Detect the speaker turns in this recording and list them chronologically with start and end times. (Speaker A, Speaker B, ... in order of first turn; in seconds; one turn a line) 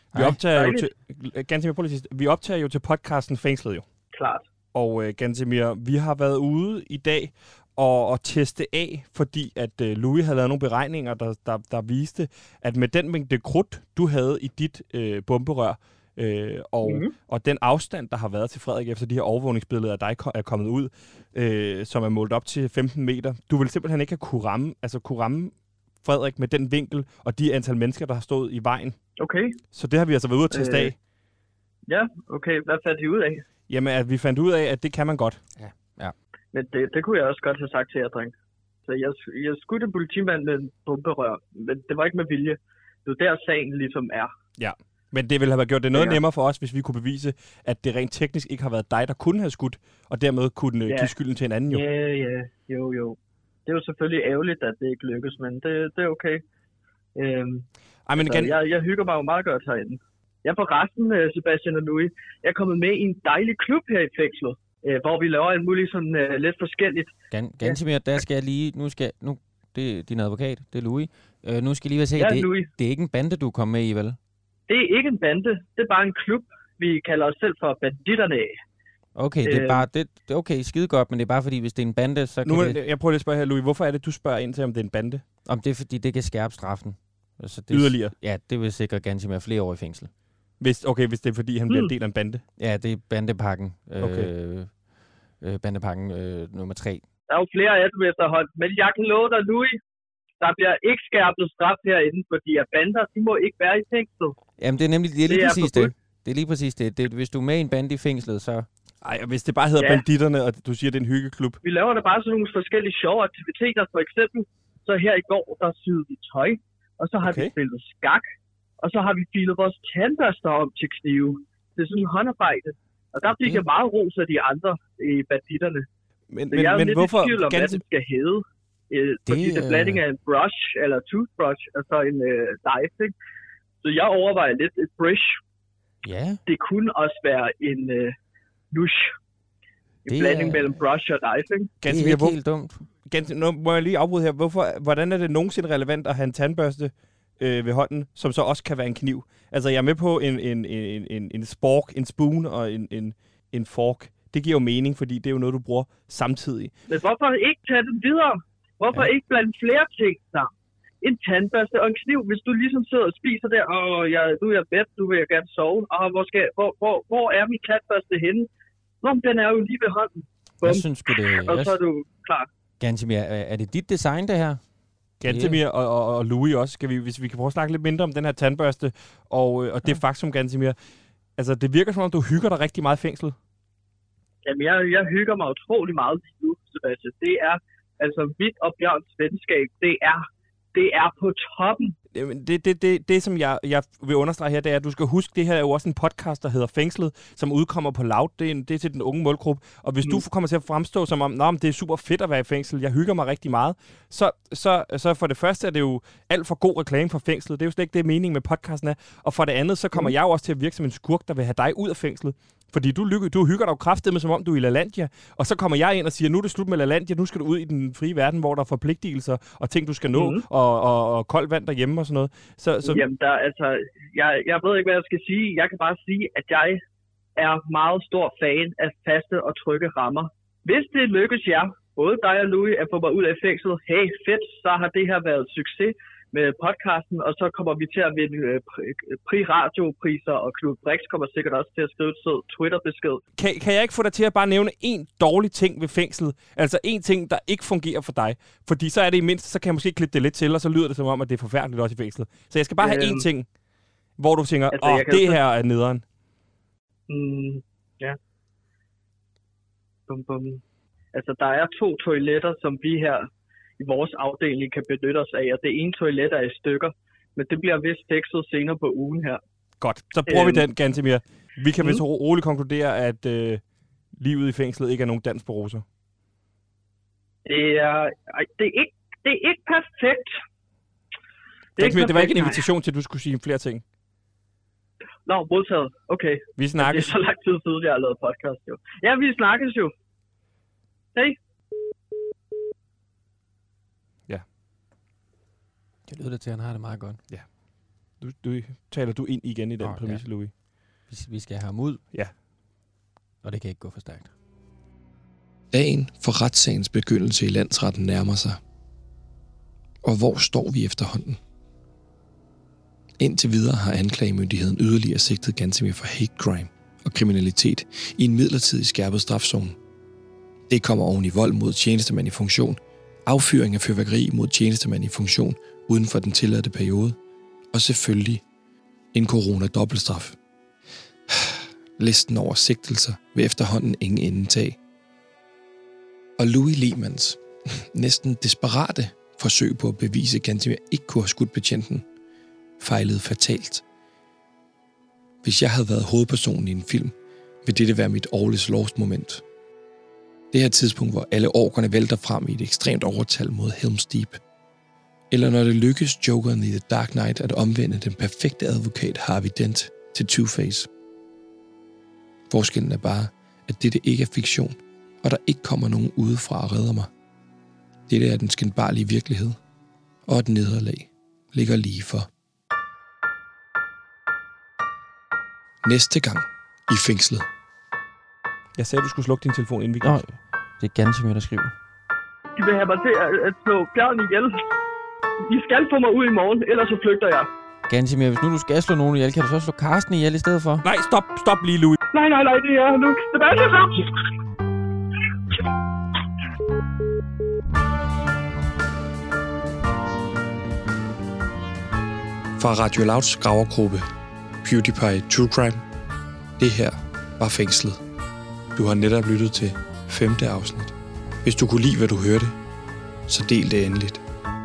Speaker A: 0.1-3.8
Speaker B: 0.5-0.9
Speaker B: 4.1-4.4
Speaker A: 4.7-29.0
Speaker B: 16.8-17.1
Speaker B: 29.2-29.6
Speaker A: 29.7-30.9
Speaker B: 30.5-30.9
Speaker B: 31.9-33.4
Speaker A: 33.7-35.4
Speaker C: 35.6-36.1
Speaker B: 36.5-38.3
Speaker B: 38.9-44.3
Speaker A: 44.6-51.8
Speaker B: 45.9-46.2
Speaker B: 51.7-56.4
Speaker B: 57.1-57.6
Speaker A: 58.1-58.6
Speaker B: 58.2-67.8
Speaker C: 67.3-74.2
Speaker B: 72.2-72.7
Speaker B: 74.7-78.5
Speaker C: 79.2-82.8
Speaker B: 79.4-79.8
Speaker A: 82.4-85.2
Speaker C: 85.5-90.1
Speaker A: 87.7-88.1
Speaker A: 90.6-92.4
Speaker C: 92.6-94.7
Speaker A: 94.0-94.3
Speaker C: 95.4-97.0
Speaker B: 97.3-99.8
Speaker B: 100.4-104.4
Speaker C: 104.6-108.7
Speaker B: 105.3-105.9
Speaker A: 109.0-111.6
Speaker B: 111.6-118.2
Speaker A: 117.2-117.5
Speaker B: 118.8-125.9
Speaker C: 123.2-123.6
Speaker A: 126.3-127.8
Speaker B: 126.5-133.1
Speaker C: 129.2-130.0
Speaker B: 133.8-135.4
Speaker C: 136.0-136.4
Speaker B: 136.5-138.1
Speaker B: 138.7-139.1
Speaker B: 140.1-141.7
Speaker C: 140.1-140.8
Speaker A: 141.8-142.4
Speaker C: 141.8-142.9
Speaker A: 143.1-156.7
Speaker B: 156.9-160.5
Speaker B: 161.0-168.5
Speaker B: 169.0-172.5
Speaker C: 170.6-171.8
Speaker C: 172.8-174.6
Speaker A: 175.2-180.8
Speaker C: 175.2-175.6
Speaker A: 181.4-183.4
Speaker B: 184.4-191.9
Speaker A: 192.1-223.0
Speaker B: 220.1-220.4
Speaker B: 222.8-226.8
Speaker B: 227.4-243.2
Speaker A: 243.4-253.5
Speaker B: 252.8-253.3
Speaker A: 254.2-256.0
Speaker B: 254.7-255.4
Speaker B: 257.1-258.2
Speaker B: 260.1-260.6
Speaker B: 261.1-263.3
Speaker B: 263.8-269.4
Speaker A: 269.8-273.6
Speaker B: 270.3-270.6
Speaker A: 274.2-275.8
Speaker B: 277.4-280.3
Speaker B: 281.8-282.6
Speaker A: 281.8-283.8
Speaker B: 285.2-289.9
Speaker A: 286.6-287.1
Speaker C: 296.1-297.2
Speaker A: 298.2-300.5
Speaker C: 299.8-300.2
Speaker C: 301.1-302.0
Speaker C: 303.4-304.3
Speaker D: 305.7-308.6
Speaker D: 310.0-311.4
Speaker D: 313.2-319.8
Speaker D: 320.7-327.2
Speaker D: 327.7-328.4
Speaker D: 329.1-330.4
Speaker D: 331.3-334.8
Speaker D: 336.4-342.0
Speaker D: 342.8-343.8
Speaker D: 345.4-347.1
Speaker D: 347.6-349.4
Speaker D: 350.5-354.4
Speaker D: 355.3-360.9
Speaker D: 362.5-367.1
Speaker D: 368.1-369.6
Speaker D: 370.2-372.3
Speaker D: 375.8-377.5
Speaker A: 378.8-380.2
Speaker C: 380.0-381.7
Speaker B: 382.6-384.6
Speaker B: 385.4-387.5
Speaker C: 387.9-390.9
Speaker A: 390.8-392.0
Speaker B: 392.1-394.1
Speaker D: 402.6-404.1
Speaker D: 404.6-405.8
Speaker D: 406.6-408.0
Speaker D: 408.8-412.6
Speaker D: 413.3-414.2